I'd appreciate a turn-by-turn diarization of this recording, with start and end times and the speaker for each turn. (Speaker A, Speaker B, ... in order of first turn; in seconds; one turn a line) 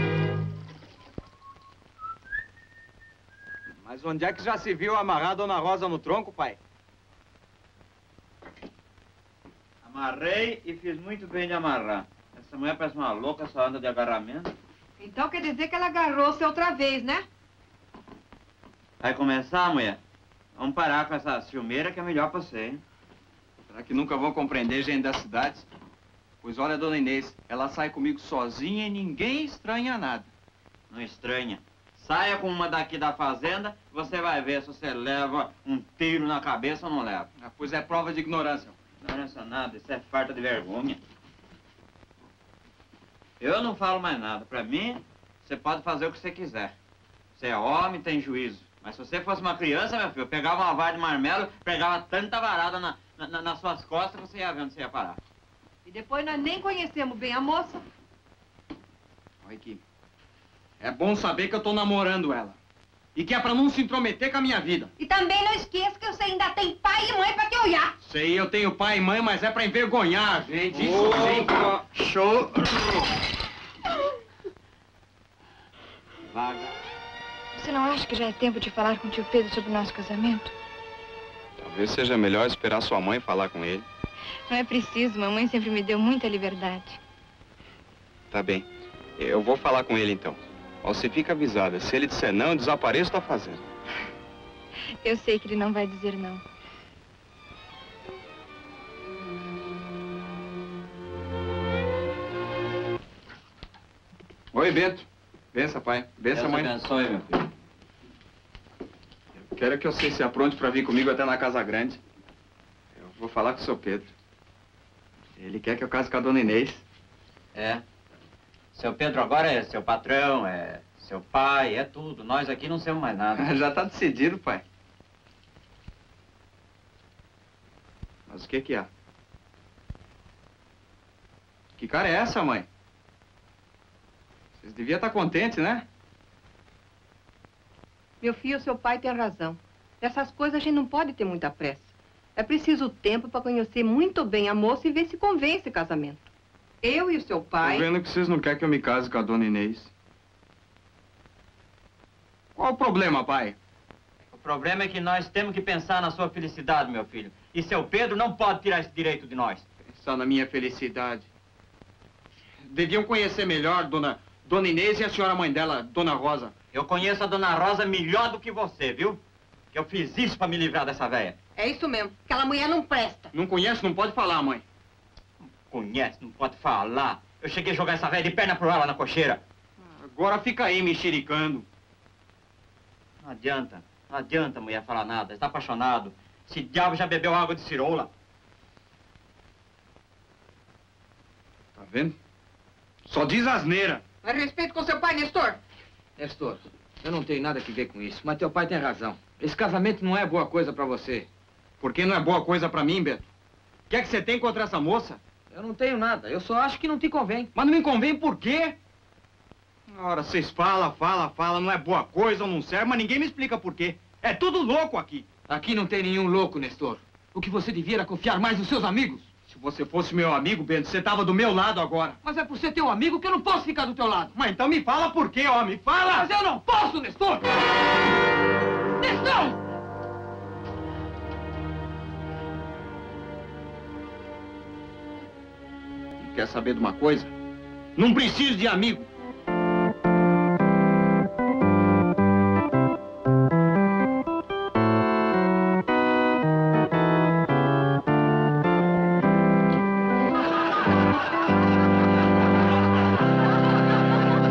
Speaker A: 3.8-6.6
Speaker B: 9.8-14.5
Speaker C: 15.0-17.3
Speaker B: 19.0-20.0
Speaker B: 20.6-22.8
Speaker A: 23.7-25.6
Speaker A: 26.4-30.3
Speaker B: 30.9-37.3
Speaker A: 37.4-38.8
Speaker B: 39.0-41.0
Speaker B: 43.4-46.7
Speaker B: 47.4-55.2
Speaker C: 55.9-57.8
Speaker A: 59.4-59.8
Speaker A: 60.8-62.6
Speaker A: 63.1-64.9
Speaker C: 65.0-67.9
Speaker A: 68.0-71.5
Speaker B: 70.8-72.7
Speaker B: 76.3-76.7
Speaker D: 77.6-80.5
Speaker A: 81.6-83.9
Speaker D: 84.5-87.0
Speaker A: 88.3-93.7
Speaker D: 95.0-96.4
Speaker A: 104.5-106.7
Speaker B: 106.3-107.5
Speaker A: 109.4-112.0
Speaker A: 113.0-114.1
Speaker A: 115.4-116.8
Speaker B: 117.5-117.8
Speaker B: 118.7-123.6
Speaker A: 123.4-124.6
Speaker A: 128.3-128.9
Speaker A: 131.8-132.7
Speaker A: 134.6-135.8
Speaker C: 138.2-146.3
Speaker C: 146.8-147.9
Speaker A: 147.6-149.9
Speaker A: 152.6-153.6
Speaker B: 154.3-159.6
Speaker A: 159.8-161.3
Speaker A: 162.7-166.5
Speaker B: 166.7-169.2
Speaker B: 169.7-171.4
Speaker C: 171.6-173.3
Speaker A: 173.3-174.6
Speaker B: 175.4-179.4
Speaker A: 180.0-181.7
Speaker B: 183.2-188.1
Speaker A: 191.8-192.2
Speaker A: 193.1-194.0
Speaker C: 194.2-195.6
Speaker E: 196.2-201.3
Speaker A: 201.8-203.2
Speaker A: 203.9-205.2
Speaker E: 205.5-207.5
Speaker A: 207.5-208.8
Speaker A: 209.9-215.3
Speaker E: 215.5-219.3
Speaker A: 217.3-218.3
Speaker A: 219.3-222.2
Speaker E: 222.2-224.3
Speaker A: 224.3-226.3
Speaker E: 226.1-227.4
Speaker D: 229.0-229.5
Speaker A: 236.2-237.3
Speaker A: 238.0-239.1